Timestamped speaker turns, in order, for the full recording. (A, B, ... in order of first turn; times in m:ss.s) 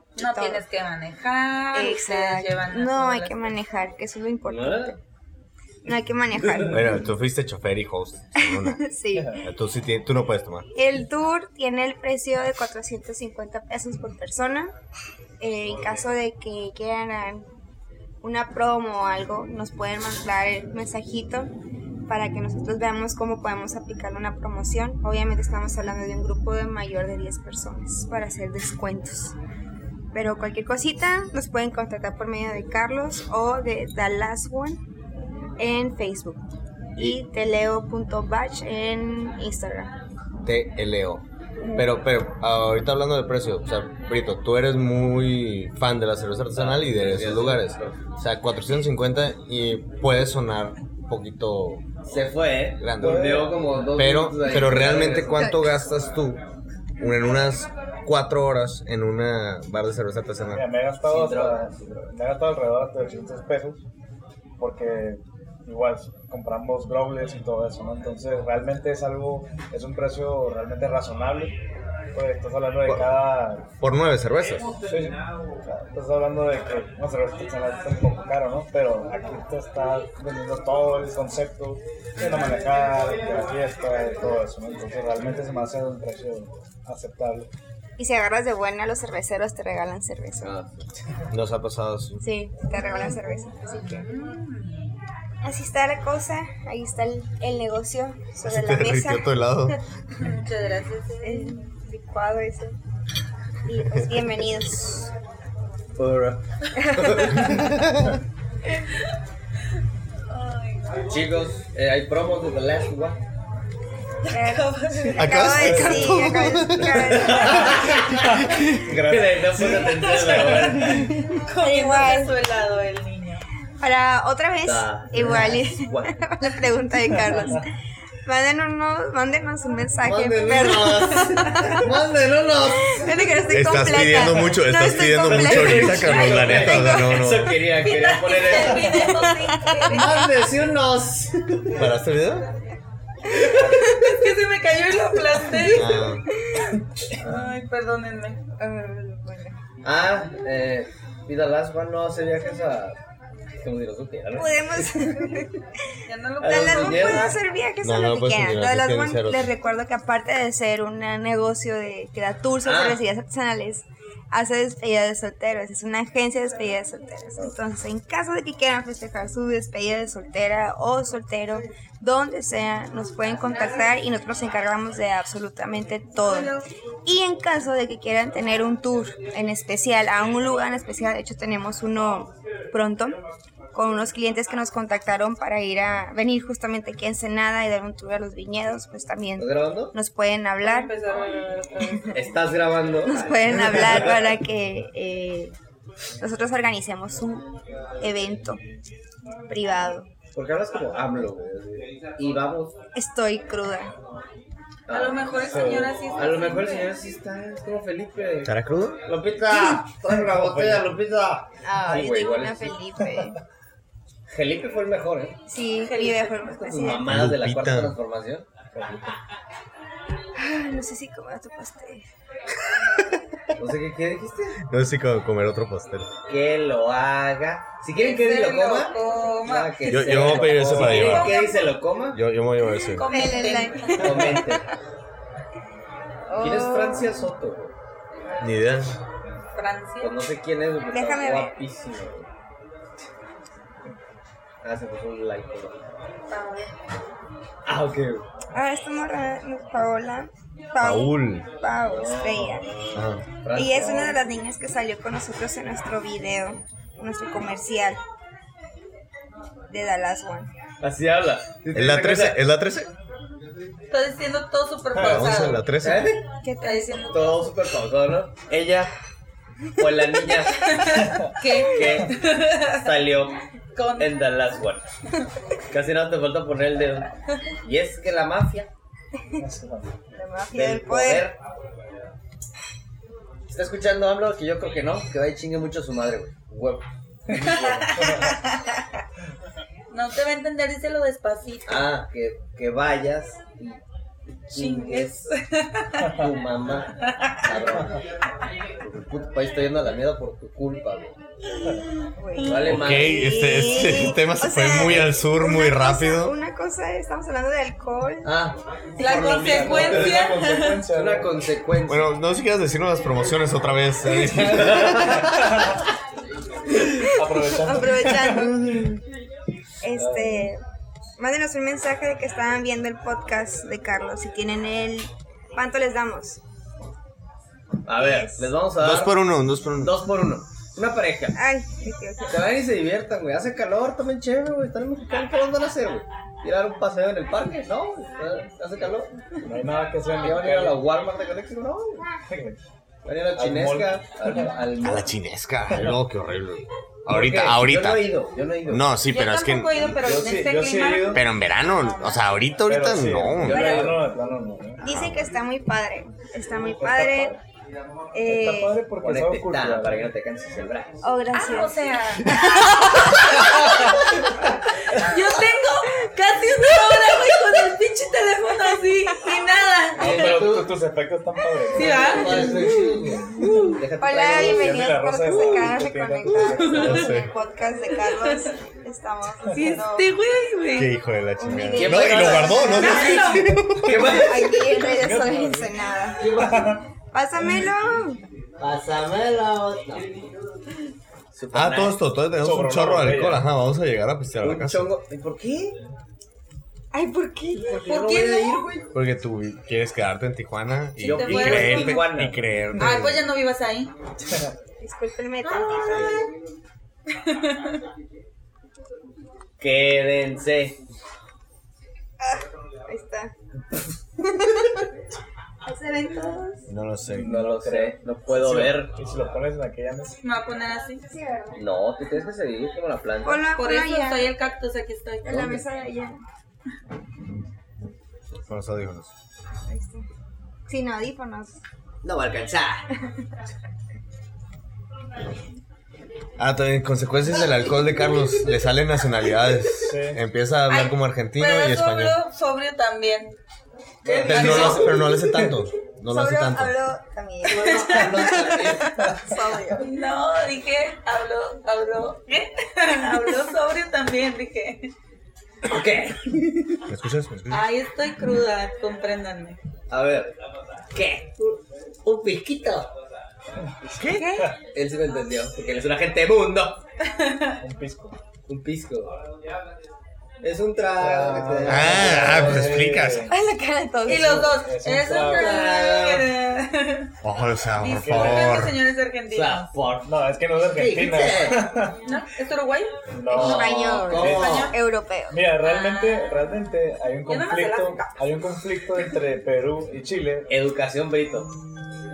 0:00.2-0:00.6 A
0:00.2-0:03.5 B
0:01.7-0:05.0 A
0:04.5-0:05.0 C
0:05.8-0:06.9 A
0:06.4-0:06.8 C
0:06.7-0:08.8 D
0:08.4-0:09.4 A
0:09.4-0:10.7 D
0:10.7-0:14.7 A
0:15.4-0:17.5 A
0:18.2-0:21.5 A
0:22.1-0:29.4 A
0:30.1-0:34.8 A
0:35.6-0:39.9 A
0:40.4-0:51.8 D
0:41.6-0:41.9 A
0:46.5-0:48.0 C
0:52.1-0:55.5 C
0:52.8-0:56.4 D
0:53.0-0:53.6 E
0:54.5-0:55.9 A
0:57.0-1:00.7 D
1:00.5-1:03.8 E
1:01.0-1:02.0 C
1:04.6-1:11.6 E
1:12.1-1:13.7 E
1:13.8-1:14.8 D
1:14.8-1:27.5 E
1:28.0-1:30.5 A
1:30.4-1:30.9 C
1:31.3-1:32.2 D
1:32.2-1:34.1 A
1:32.8-1:34.9 B
1:35.4-1:39.8 A
1:38.4-1:39.8 D
1:40.2-1:41.6 B
1:41.2-1:42.8 A
1:43.6-1:45.1 A
1:46.0-1:47.6 C
1:46.8-1:47.5 A
1:47.4-1:48.2 D
1:50.3-1:51.2 B
1:51.1-1:53.2 C
1:54.3-1:55.5 B
1:54.3-1:58.0 A
1:55.2-1:57.6 D
1:55.6-1:56.2 E
1:56.9-2:01.1 C
1:58.0-2:01.1 E
1:58.4-1:58.9 D
1:59.9-2:03.4 B
2:01.6-2:02.4 A
2:03.8-2:07.7 A
2:04.6-2:06.2 C
2:08.2-2:11.9 A
2:10.0-2:13.1 C
2:12.7-2:18.0 A
2:13.5-2:17.6 D
2:15.0-2:19.2 C
2:17.8-2:20.3 B
2:18.8-2:20.1 A
2:19.9-2:21.9 C
2:21.7-2:22.5 D
2:23.3-2:24.2 A
2:23.7-2:26.1 B
2:25.5-2:26.6 A
2:25.7-2:26.2 D
2:27.1-2:28.4 B
2:28.6-2:29.6 A
2:29.8-2:33.0 C
2:33.6-2:35.4 C
2:34.3-2:35.5 A
2:36.1-2:37.4 B
2:36.4-2:37.4 C
2:36.4-3:03.2 A
2:37.8-2:39.5 D
2:42.6-2:43.0 C
2:56.2-2:56.6 B
3:03.7-3:10.9 A
3:09.4-3:10.0 C
3:10.6-3:12.3 B
3:12.1-3:14.3 C
3:13.0-3:15.6 A
3:16.2-3:18.6 A
3:19.5-3:20.1 A
3:20.4-3:22.8 C
3:23.0-3:23.9 A
3:24.9-3:28.5 C
3:24.9-3:26.9 B
3:25.4-3:26.0 E
3:28.4-3:29.0 D
3:29.0-3:32.8 C
3:30.1-3:30.9 E
3:31.6-3:33.4 A
3:34.3-3:35.4 C
3:35.5-3:37.1 A
3:35.8-3:36.4 B
3:36.4-3:38.5 C
3:37.1-3:38.0 D
3:38.7-3:39.2 E
3:40.4-3:42.1 A
3:43.6-3:44.6 C
3:44.6-3:46.1 D
3:46.3-3:52.2 C
3:47.9-3:51.6 B
3:49.9-3:51.4 D
3:50.5-3:51.1 E
3:52.1-3:53.1 D
3:52.9-3:54.3 B
3:53.0-3:54.7 A
3:54.0-3:54.6 C
3:56.3-3:57.3 A
3:56.4-3:57.7 C
3:58.4-3:59.0 D
3:59.6-4:00.2 B
4:00.0-4:02.3 C
4:00.9-4:01.5 A
4:04.6-4:05.8 C
4:06.3-4:06.7 B
4:07.6-4:08.2 C
4:08.5-4:12.7 A
4:10.8-4:11.4 D
4:11.9-4:14.2 C
4:13.0-4:13.2 D
4:13.5-4:18.0 A
4:19.7-4:20.5 A
4:20.8-4:22.4 C
4:21.8-4:22.9 D
4:23.9-4:25.6 B
4:25.0-4:26.2 D
4:25.0-4:25.4 E
4:25.8-4:26.2 C
4:26.4-4:27.4 A
4:26.6-4:27.5 B
4:27.1-4:28.9 C
4:29.8-4:30.8 C
4:30.6-4:32.8 B
4:31.6-4:33.4 C
4:33.8-4:34.1 B
4:34.0-4:34.9 C
4:35.7-4:37.1 C
4:37.6-4:38.7 C
4:39.4-4:39.9 E
4:40.1-4:41.3 A
4:40.5-4:41.4 C
4:43.5-4:48.1 C
4:47.3-4:48.3 E
4:47.3-4:48.8 B
4:49.9-4:51.9 B
4:51.7-4:53.8 C
4:54.5-4:55.3 C
4:54.5-4:56.2 B
4:56.1-4:58.0 C
4:57.1-4:57.5 B
4:58.8-5:01.2 C
5:02.2-5:08.3 A
5:02.4-5:02.7 B
5:02.4-5:03.7 C
5:02.7-5:06.4 D
5:08.2-5:10.4 C
5:09.0-5:10.8 B
5:09.0-5:11.3 E
5:10.9-5:12.1 C
5:11.9-5:15.5 D
5:14.1-5:15.5 C
5:14.9-5:15.8 E
5:17.0-5:18.6 E
5:17.2-5:19.0 A
5:19.8-5:20.6 A
5:20.0-5:20.4 E
5:21.2-5:26.4 A
5:27.9-5:29.3 C
5:28.0-5:28.6 A
5:28.8-5:30.0 D
5:29.8-5:31.4 C
5:31.4-5:32.6 A
5:32.3-5:39.1 C
5:39.4-5:40.8 E
5:40.2-5:42.1 C
5:42.3-5:42.6 E
5:43.0-5:45.1 C
5:43.4-5:44.5 E
5:44.8-5:48.2 D
5:45.7-5:46.0 E
5:47.1-5:48.9 C
5:48.7-5:50.0 D
5:49.1-5:52.3 B
5:50.0-5:51.3 E
5:51.1-5:53.9 D
5:52.6-5:54.8 E
5:53.4-5:54.1 C
5:54.8-5:57.3 A
5:54.8-5:55.3 D
5:56.8-5:57.4 E
5:58.1-5:58.8 A
5:58.2-6:00.1 E
5:59.0-6:01.1 C
6:01.0-6:03.4 A
6:01.3-6:04.0 B
6:04.9-6:10.4 B
6:10.0-6:10.8 C
6:10.0-6:13.7 E
6:11.7-6:12.7 B
6:11.8-6:15.0 C
6:13.4-6:13.7 B
6:14.0-6:20.1 A
6:14.3-6:17.1 E
6:16.6-6:17.1 B
6:16.7-6:17.3 D
6:17.9-6:18.5 B
6:19.5-6:20.9 B
6:20.8-6:24.3 D
6:21.4-6:23.3 A
6:21.7-6:24.6 C
6:22.6-6:23.6 B
6:24.2-6:26.5 A
6:24.8-6:25.8 E
6:26.2-6:26.8 C
6:26.3-6:26.8 E
6:27.1-6:28.2 A
6:28.6-6:30.3 C
6:31.3-6:32.0 C
6:31.5-6:34.9 D
6:32.4-6:33.5 E
6:34.4-6:35.8 C
6:36.9-6:37.9 A
6:37.6-6:38.9 C
6:37.9-6:38.6 B
6:38.9-6:43.2 D
6:41.0-6:42.2 B
6:41.0-6:42.4 C
6:42.8-6:43.1 E
6:42.8-6:43.9 B
6:44.3-6:44.5 E
6:44.8-6:46.2 A
6:45.5-6:46.3 C
6:47.2-6:47.8 B
6:49.6-6:50.8 C
6:52.9-6:53.3 A
6:54.3-6:54.7 A
6:55.6-6:56.7 A
6:56.7-6:57.3 D
6:57.1-7:00.2 E
6:57.2-6:58.9 C
7:00.2-7:01.0 B
7:01.1-7:01.6 A
7:01.6-7:03.5 C
7:03.2-7:04.3 A
7:03.6-7:05.6 B
7:05.2-7:06.2 A
7:05.3-7:05.6 C
7:08.4-7:09.1 D
7:09.7-7:10.1 A
7:10.7-7:11.6 A
7:12.0-7:12.9 C
7:16.4-7:22.2 D
7:19.8-7:20.2 E
7:20.7-7:23.4 B
7:24.0-7:25.5 E
7:24.0-7:25.0 B
7:24.1-7:26.8 D
7:24.4-7:24.7 C
7:26.1-7:29.9 A
7:27.5-7:29.2 C
7:27.6-7:28.2 B
7:29.8-7:34.9 B
7:35.6-7:36.8 C
7:36.9-7:37.7 D
7:37.5-7:39.6 B
7:39.9-7:40.4 C
7:40.9-7:42.9 C
7:44.0-7:44.2 D
7:44.1-7:44.5 B
7:44.2-7:44.5 E
7:44.7-7:46.8 C
7:47.1-7:47.6 B
7:47.6-7:48.2 E
7:48.5-7:49.2 C
7:50.4-7:52.8 C
7:51.0-7:53.3 E
7:51.7-7:53.3 D
7:53.3-7:54.5 A
7:54.0-7:57.1 B
7:54.1-7:55.6 E
7:55.2-7:56.3 C
7:57.2-7:58.8 D
7:57.8-7:59.7 B
7:57.9-7:58.7 E
7:59.3-8:00.1 C
8:00.0-8:02.0 E
8:00.7-8:01.7 C
8:02.0-8:02.9 B
8:03.1-8:04.7 E
8:03.3-8:05.5 A
8:03.3-8:04.8 C
8:05.3-8:10.5 E
8:05.6-8:06.4 B
8:07.3-8:08.2 B
8:10.5-8:11.5 C